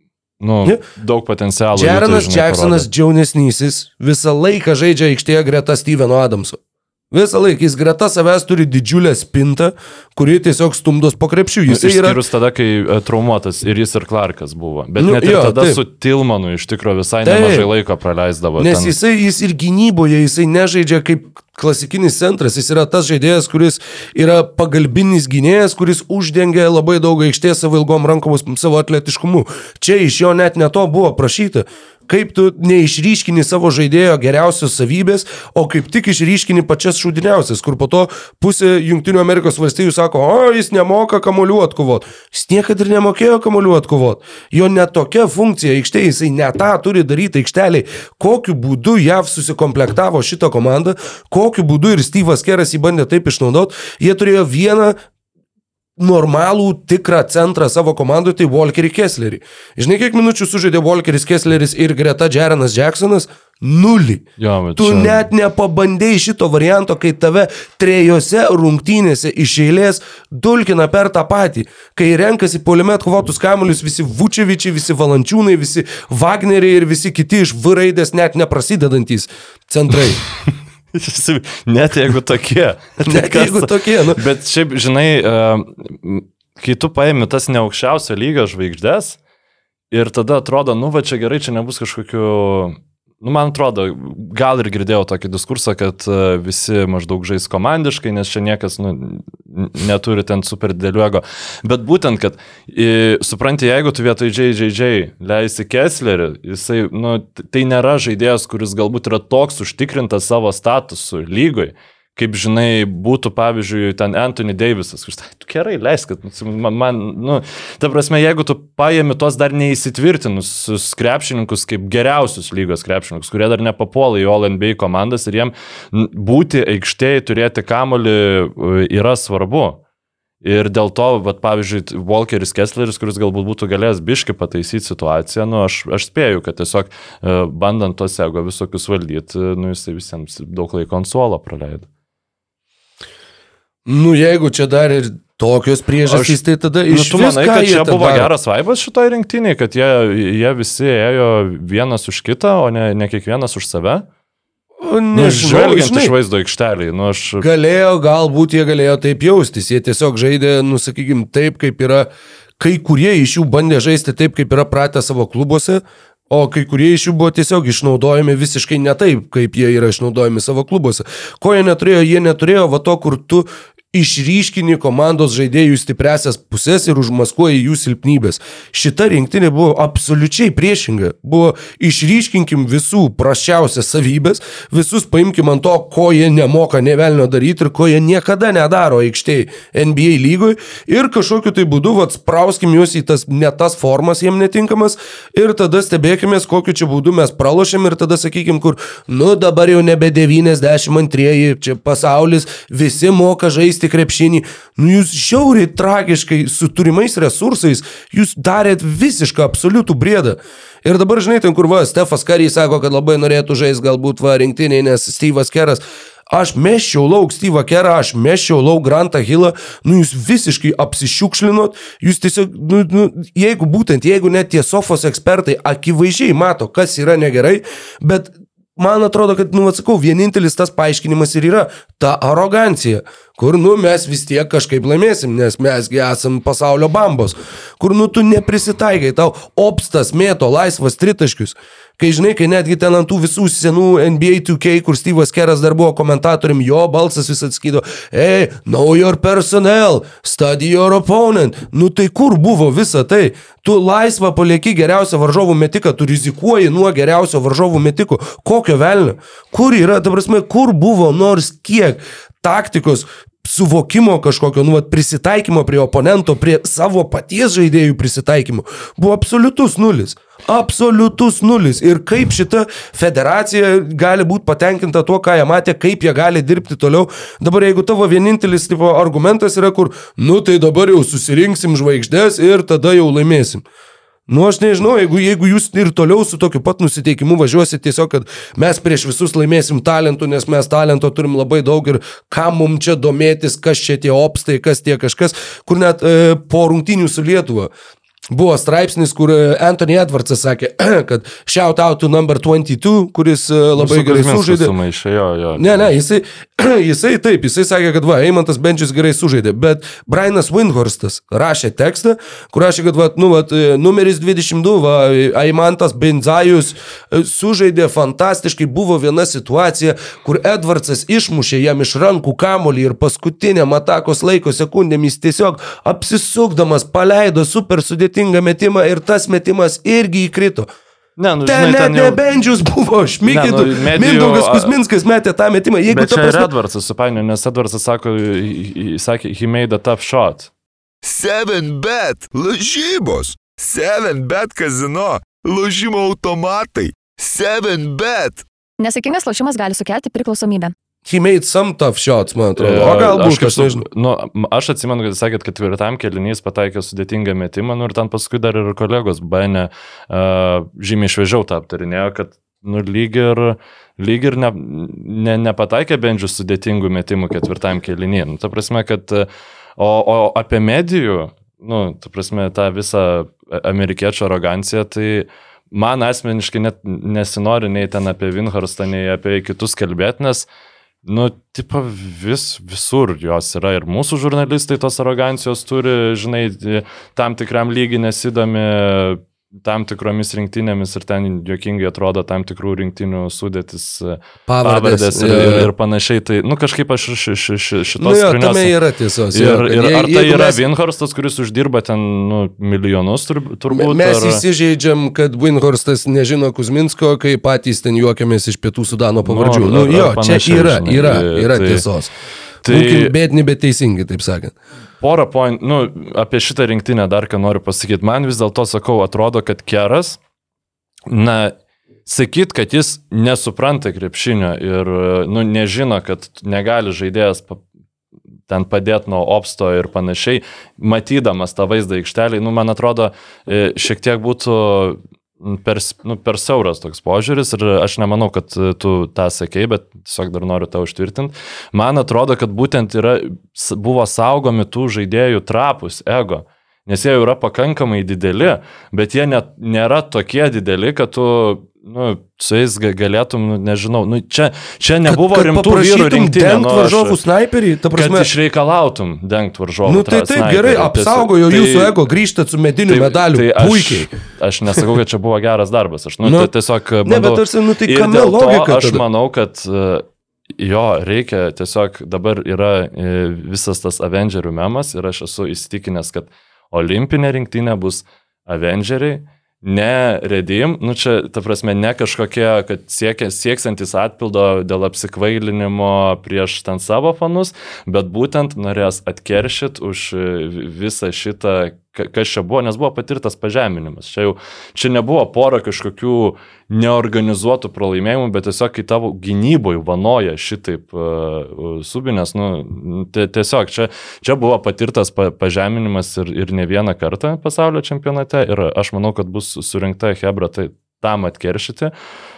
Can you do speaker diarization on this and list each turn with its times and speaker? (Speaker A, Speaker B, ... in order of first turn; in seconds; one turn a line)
Speaker A: 0.4-2.9
Speaker B: 1.7-6.6
Speaker B: 7.1-12.2
Speaker A: 11.7-18.9
Speaker B: 15.0-15.8
Speaker B: 17.2-17.7
Speaker B: 18.6-55.0
Speaker B: 56.0-64.3
Speaker A: 64.4-65.3
Speaker B: 64.8-80.2
Speaker A: 80.5-89.2
Speaker B: 83.0-84.2
Speaker A: 89.9-129.8
Speaker A: 130.4-141.9
Speaker B: 143.9-148.3
Speaker A: 146.1-146.4
Speaker A: 146.9-154.1
Speaker B: 154.8-156.1
Speaker A: 155.1-157.5
Speaker B: 157.4-162.1
Speaker B: 162.6-283.6
Speaker B: 284.3-297.7
Speaker B: 298.3-304.7
Speaker A: 303.8-305.9
Speaker B: 305.6-330.7
Speaker A: 331.2-332.2
Speaker B: 331.4-336.5
Speaker A: 333.2-334.7
Speaker A: 335.9-340.5
Speaker C: 341.0-348.5
Speaker D: 348.8-350.7
Speaker B: 351.1-353.8
Speaker A: 352.6-380.5
Speaker A: 381.1-398.7
Speaker B: 394.5-395.7
Speaker B: 398.0-400.6
Speaker A: 399.3-404.4
Speaker B: 403.7-412.1
Speaker A: 409.2-411.9
Speaker A: 412.6-413.1
Speaker B: 412.7-414.5
Speaker A: 415.0-420.2
Speaker A: 421.1-421.5
Speaker A: 422.1-427.6
Speaker A: 428.5-457.2
Speaker B: 455.1-458.3
Speaker A: 457.9-462.0
Speaker B: 459.8-464.1
Speaker A: 462.9-470.1
Speaker B: 466.2-466.5
Speaker B: 467.0-469.0
Speaker A: 470.6-511.9